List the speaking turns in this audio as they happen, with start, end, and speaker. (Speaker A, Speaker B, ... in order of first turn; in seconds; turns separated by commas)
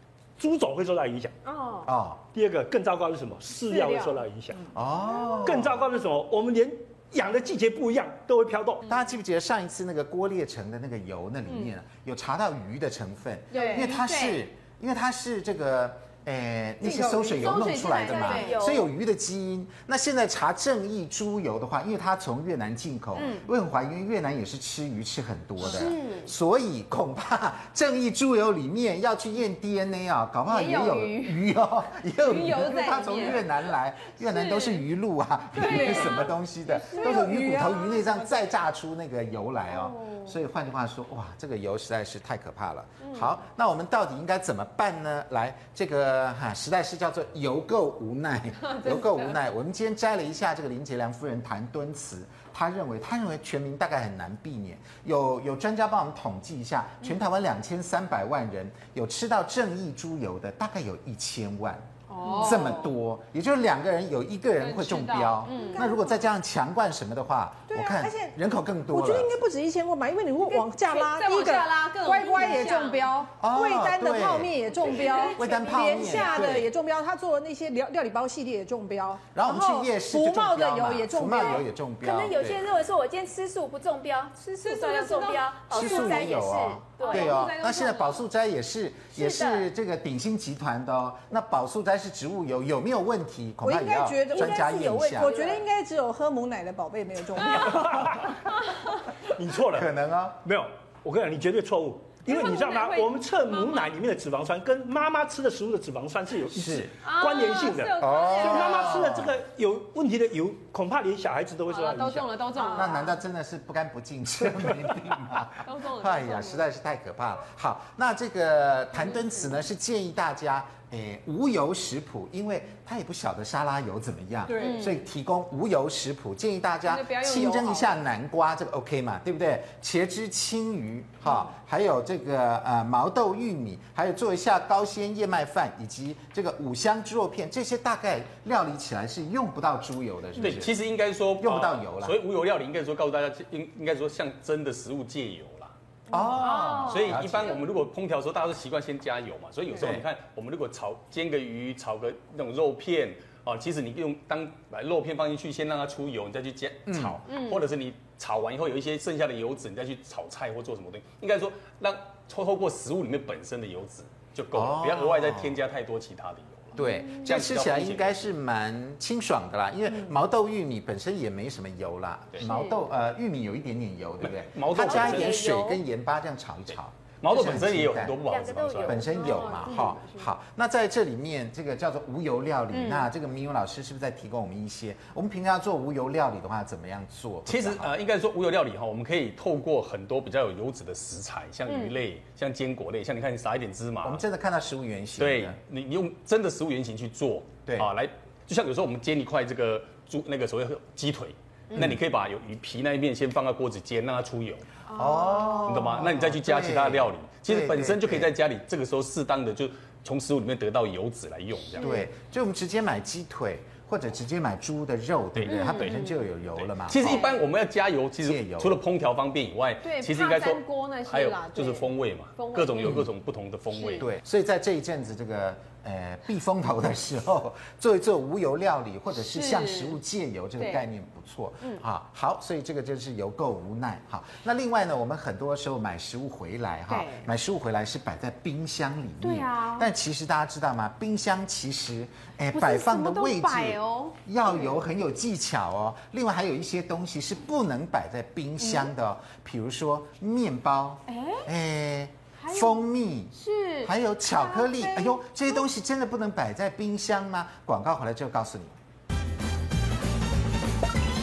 Speaker A: 0.4-1.3, Speaker B: 1.4-1.9, Speaker C: 1.8-2.2, Speaker A: 2.3-4.7, Speaker B: 3.6-4.2, Speaker C: 4.7-5.8, Speaker B: 5.1-5.4, Speaker A: 5.4-8.8, Speaker C: 8.9-69.3, Speaker B: 13.5-14.4, Speaker B: 16.8-18.8, Speaker D: 17.9-18.9, Speaker B: 23.1-23.5, Speaker B: 25.6-26.3, Speaker B: 30.5-31.4, Speaker B: 32.2-33.5, Speaker B: 34.1-34.8, Speaker B: 35.5-38.4, Speaker B: 39.7-40.4, Speaker B: 43.0-43.3, Speaker B: 48.7-49.3, Speaker B: 62.1-62.9, Speaker B: 64.6-65.9, Speaker E: 65.5-66.2, Speaker E: 67.7-68.4, Speaker E: 68.9-81.7, Speaker B: 70.4-73.1, Speaker C: 73.4-74.7, Speaker B: 74.7-76.5, Speaker C: 75.3-76.7, Speaker C: 79.3-82.6, Speaker D: 82.0-87.4, Speaker B: 84.6-86.3, Speaker C: 85.7-95.3, Speaker B: 87.0-88.2, Speaker D: 89.1-89.7, Speaker E: 93.6-98.2, Speaker D: 94.3-95.6, Speaker A: 97.6-98.4, Speaker A: 99.2-112.7, Speaker C: 99.7-100.4, Speaker B: 102.2-103.9, Speaker C: 106.5-106.9, Speaker B: 107.0-109.2, Speaker C: 108.0-109.4, Speaker B: 111.7-113.2, Speaker C: 112.6-140.8, Speaker B: 115.6-116.7, Speaker B: 119.0-119.6, Speaker B: 124.5-125.0, Speaker B: 126.9-128.0, Speaker F: 140.4-145.7, Speaker C: 141.4-142.2, Speaker C: 146.1-147.6, Speaker B: 146.1-147.6, Speaker F: 146.6-168.2, Speaker C: 149.8-150.0, Speaker C: 156.9-157.2, Speaker B: 157.3-157.7, Speaker C: 164.5-165.6, Speaker C: 166.7-178.2, Speaker B: 166.8-167.3, Speaker B: 172.4-172.8, Speaker F: 174.2-175.7, Speaker D: 174.8-175.1, Speaker B: 174.9-175.5, Speaker F: 177.2-179.1, Speaker D: 178.2-179.5, Speaker C: 178.8-187.9, Speaker B: 179.0-180.3, Speaker B: 182.7-183.1, Speaker F: 187.5-194.2, Speaker B: 191.7-192.0, Speaker C: 194.0-195.6, Speaker F: 195.2-204.6, Speaker B: 201.7-201.9, Speaker B: 204.9-205.9, Speaker C: 204.9-208.3, Speaker F: 205.6-211.9, Speaker B: 211.7-212.0, Speaker C: 211.8-217.2, Speaker F: 215.3-215.9, Speaker B: 215.5-216.2, Speaker F: 216.6-224.1, Speaker B: 217.0-217.4, Speaker C: 218.2-218.8, Speaker B: 219.8-223.1, Speaker B: 223.7-224.0, Speaker C: 224.0-258.8, Speaker B: 229.2-230.0, Speaker B: 236.9-237.3, Speaker B: 239.2-239.9, Speaker B: 242.5-244.8, Speaker B: 248.6-248.9, Speaker B: 251.1-251.5, Speaker B: 252.4-252.8, Speaker B: 253.3-255.6